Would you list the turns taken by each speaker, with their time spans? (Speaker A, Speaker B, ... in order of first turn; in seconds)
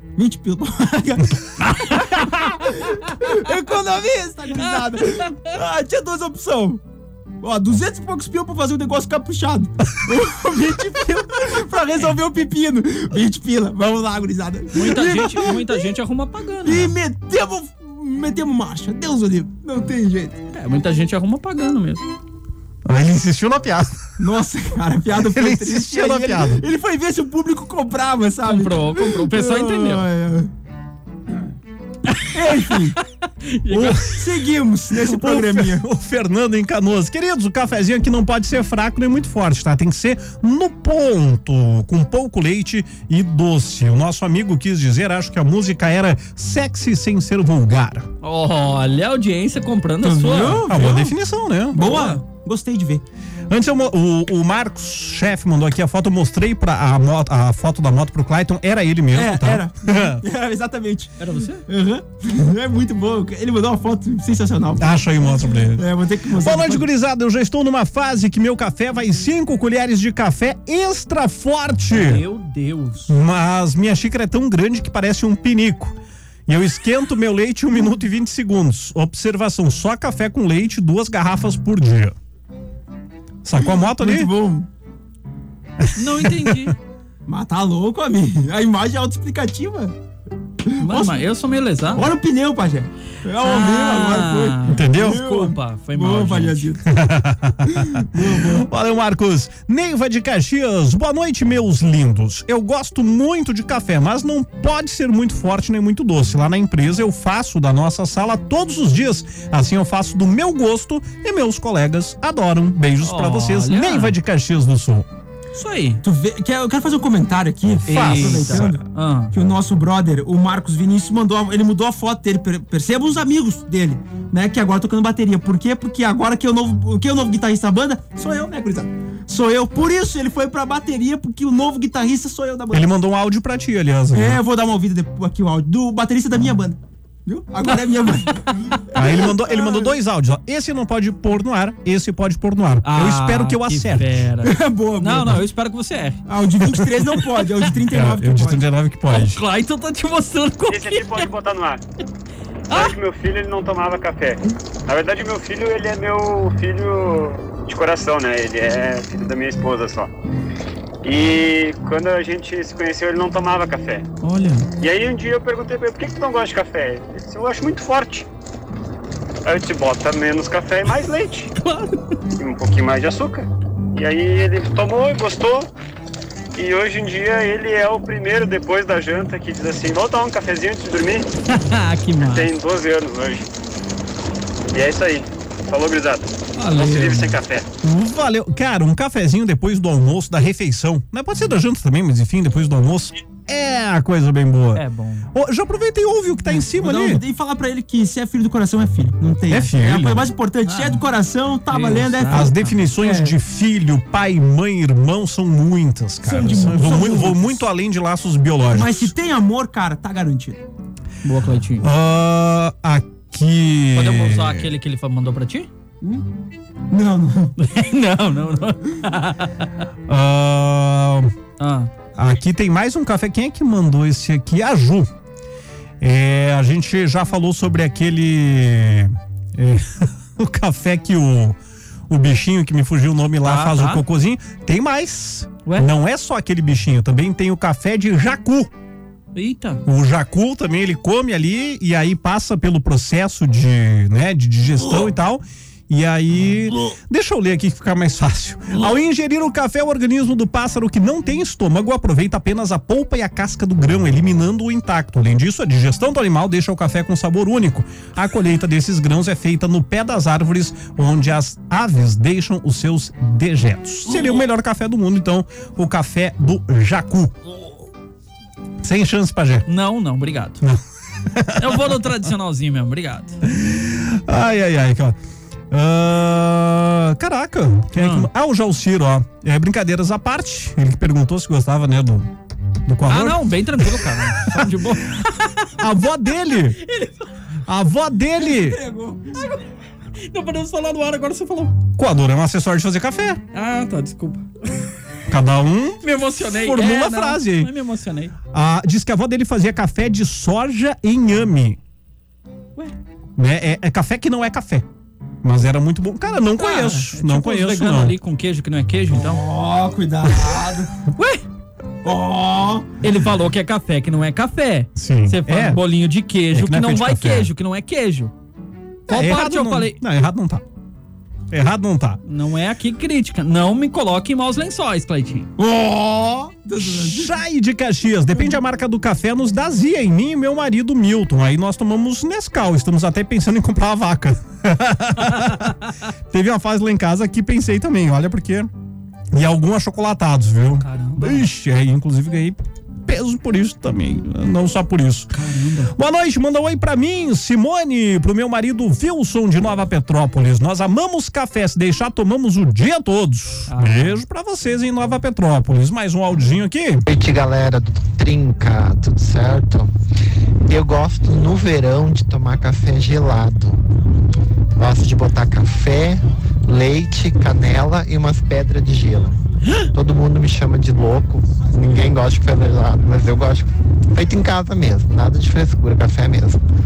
Speaker A: 0.1-6.8, 7.4-15.8, 16.6-20.4, 24.2-30.5, 32.3-33.0, 33.7-35.8, 50.0-51.1, 51.7-53.0, 59.1-61.1, 61.7-66.8, 83.6-84.7, 87.3-90.0, 90.7-91.2, 91.9-96.8, 97.7-98.7, 116.0-132.9, 134.1-139.9, 144.4-145.4, 146.3-148.6, 196.6-203.3, 206.2-207.6, 208.7-210.6, 216.9-217.6, 288.4-289.4, 309.1-310.9, 312.0-312.9, 325.6-327.3
Speaker B: 1.7-2.2, 4.5-5.5, 14.7-16.9, 20.5-22.0, 28.4-30.1, 32.1-32.3, 33.4-34.1, 48.2-51.0, 51.7-52.2, 61.2-61.6, 71.9-73.1, 86.0-86.7, 90.8-92.1, 93.4-96.7, 113.0-114.2, 115.5-116.0, 117.8-119.3, 142.8-146.2, 149.1-151.3, 152.7-153.0, 164.2-164.7, 171.6-172.1, 181.5-182.6, 186.6-187.4, 194.7-195.3, 200.7-201.0, 201.7-202.9, 211.2-211.8, 213.9-215.7, 217.6-219.6, 221.6-221.9, 233.4-234.0, 239.3-239.8, 269.7-270.6, 271.6-273.4, 277.9-278.3, 283.1-285.8, 286.8-287.3, 289.3-289.6, 290.2-291.8, 293.5-294.4, 296.0-298.3, 306.6-309.4, 311.1-311.4, 313.0-318.3, 319.1-320.0, 322.2-325.5, 335.2-335.9, 340.8-341.5, 345.3-345.9, 353.7-354.2
Speaker C: 22.9-23.9, 25.2-26.6, 34.9-48.1, 50.7-51.8, 53.5-60.2, 64.8-72.2, 73.1-76.0, 76.5-82.1, 83.4-84.3, 85.8-86.7, 94.7-95.2, 96.9-115.0, 117.8-118.8, 132.7-134.4, 138.9-144.2, 147.9-149.4, 187.8-197.2, 199.5-200.3, 202.3-209.1, 211.8-214.7, 220.1-221.3, 222.2-225.1, 226.0-231.6, 232.1-238.7, 239.8-267.4, 268.8-269.6, 270.6-271.9, 273.4-275.2, 275.7-282.3, 282.9-284.6, 285.8-286.8, 287.6-288.8, 291.9-293.4, 295.3-297.7, 298.5-301.8, 303.4-304.8, 305.4-308.1, 314.9-315.8, 316.5-317.5, 319.1-320.6, 321.5-322.2, 326.8-335.8, 336.3-338.7, 339.3-345.3, 345.9-357.1
Speaker D: 150.7-151.8, 152.7-160.1, 161.0-164.0, 164.8-168.3, 169.4-171.5, 172.4-175.7, 176.6-181.2, 182.2-183.4, 184.7-187.6
Speaker E: 357.1-359.9, 360.7-363.8, 364.8-369.3, 369.9-376.6